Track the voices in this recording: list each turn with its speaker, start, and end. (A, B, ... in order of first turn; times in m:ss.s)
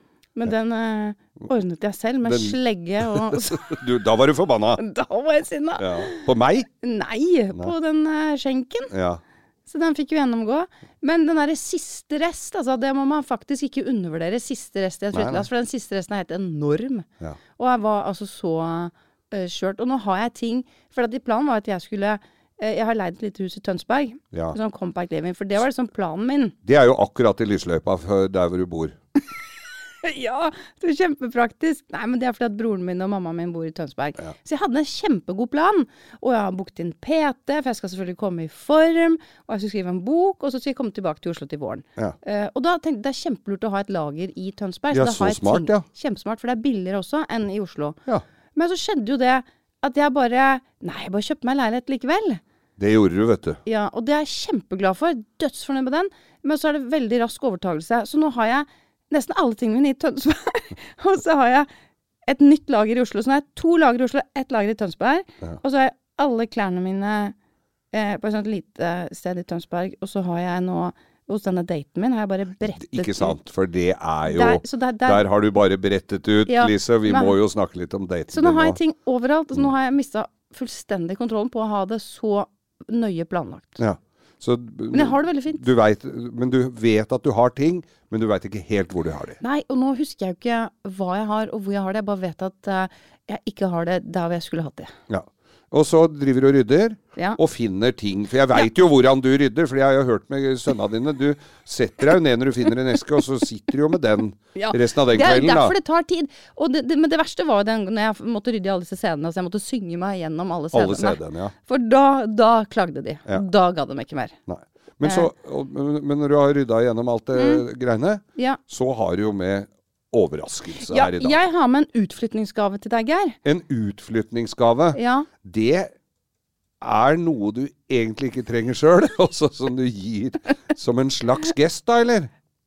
0:00.4-0:03.8 A
0:02.2-0:04.8 B
0:04.8-0:06.3 A
0:05.8-0:06.7 B
0:06.8-0:08.9 A
0:08.9-0:09.2 B
0:09.7-0:26.6 A
0:15.1-0:15.5 B
0:26.7-0:29.0 B
0:30.0-0:48.0 A
0:44.9-0:45.8 B
0:48.6-0:52.4 A
0:52.8-0:53.6 B
0:53.6-1:01.7 A
1:02.3-1:07.4 A
1:07.9-1:13.4 A
1:12.7-1:18.8 B
1:14.2-1:15.2 A
1:16.5-1:17.4 A
1:18.3-1:23.8 A
1:23.8-1:29.4 B
1:24.9-1:25.6 A
1:29.4-1:34.9 A
1:35.1-1:45.8 B
1:44.6-1:54.4 A
1:50.7-1:51.5 B
1:54.5-2:01.4 B
1:57.4-1:57.6 A
2:00.8-2:03.4 A
2:03.4-2:05.9 B
2:04.9-2:05.3 A
2:06.8-2:12.3 B